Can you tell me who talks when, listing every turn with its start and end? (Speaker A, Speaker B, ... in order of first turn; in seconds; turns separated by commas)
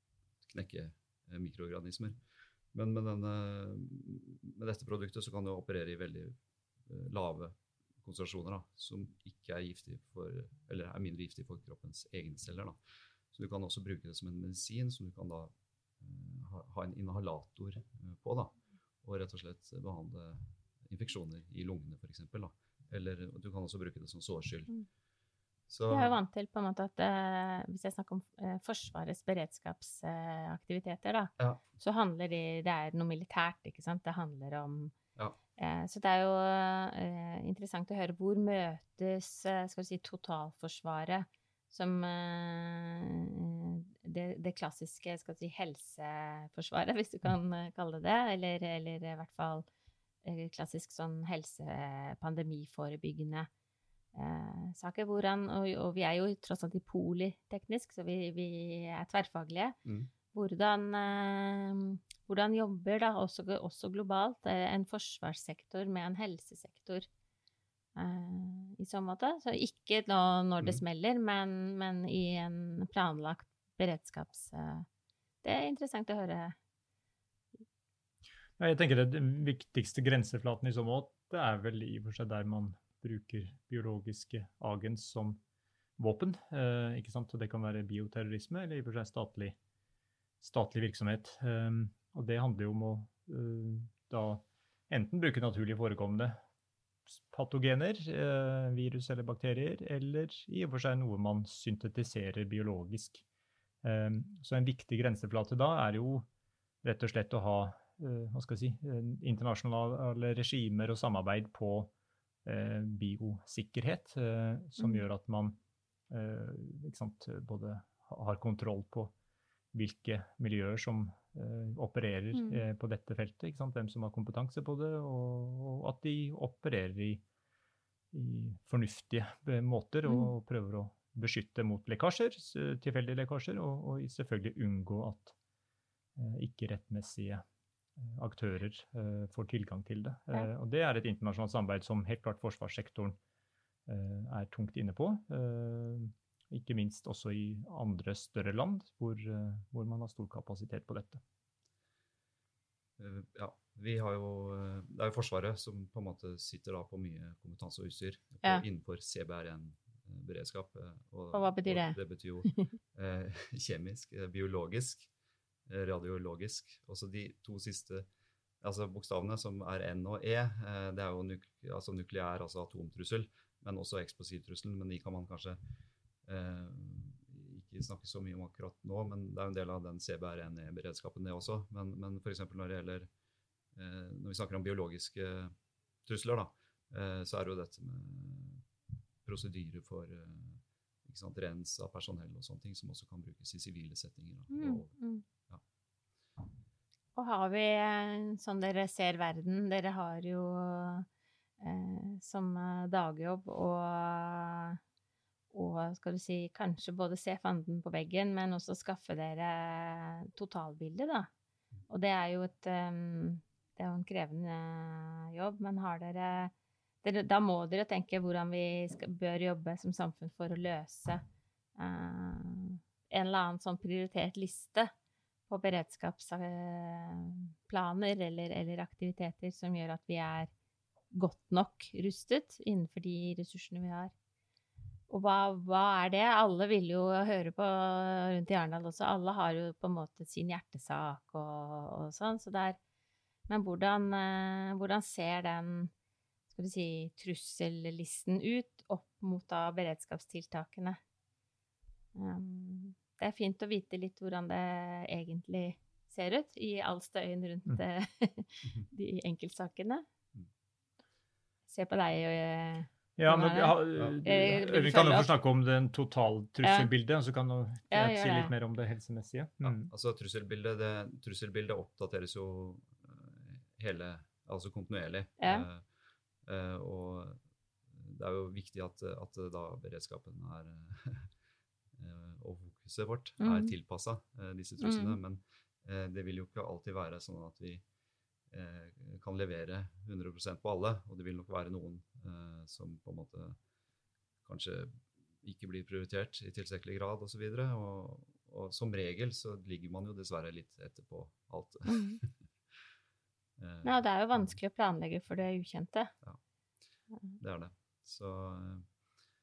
Speaker A: 0.4-2.2, Speaker A: 2.7-12.8, Speaker A: 13.3-24.7, Speaker A: 25.7-26.2, Speaker B: 25.9-34.9, Speaker B: 35.6-49.6, Speaker B: 50.2-53.5, Speaker B: 54.1-59.8, Speaker A: 59.8-60.1, Speaker B: 60.3-67.1, Speaker B: 68.0-74.9, Speaker B: 75.4-76.5, Speaker C: 78.6-85.4, Speaker C: 86.0-89.5, Speaker C: 90.4-96.4, Speaker C: 97.1-103.2, Speaker C: 103.8-106.2, Speaker C: 106.8-111.9, Speaker C: 112.4-115.6, Speaker B: 114.8-115.0, Speaker C: 116.1-119.1, Speaker C: 119.7-127.2, Speaker B: 122.3-122.7, Speaker C: 128.1-135.3, Speaker B: 130.1-130.3, Speaker C: 136.2-137.4, Speaker C: 138.0-143.2, Speaker C: 143.9-151.2, Speaker A: 153.0-165.1, Speaker B: 161.3-162.7, Speaker A: 165.7-168.1, Speaker A: 168.6-175.6, Speaker A: 176.2-183.1, Speaker A: 183.7-188.6, Speaker A: 189.2-194.9, Speaker B: 194.5-195.2, Speaker B: 197.2-201.1, Speaker B: 201.6-204.8, Speaker B: 205.5-211.3, Speaker B: 211.9-221.2, Speaker B: 221.8-224.9, Speaker B: 225.5-230.5, Speaker B: 231.1-234.1, Speaker B: 235.1-242.8, Speaker B: 243.5-245.9, Speaker B: 246.5-251.0, Speaker B: 252.1-260.0, Speaker B: 261.7-265.3, Speaker C: 263.2-269.9, Speaker B: 266.6-266.9, Speaker B: 267.9-268.5, Speaker A: 269.6-275.8, Speaker B: 275.4-275.7, Speaker A: 276.4-281.3, Speaker A: 281.9-287.8, Speaker B: 283.4-283.7, Speaker B: 284.8-285.2, Speaker A: 288.5-293.6, Speaker A: 294.4-302.3, Speaker B: 301.9-302.2, Speaker A: 303.6-304.6, Speaker B: 303.8-306.1, Speaker A: 307.4-308.9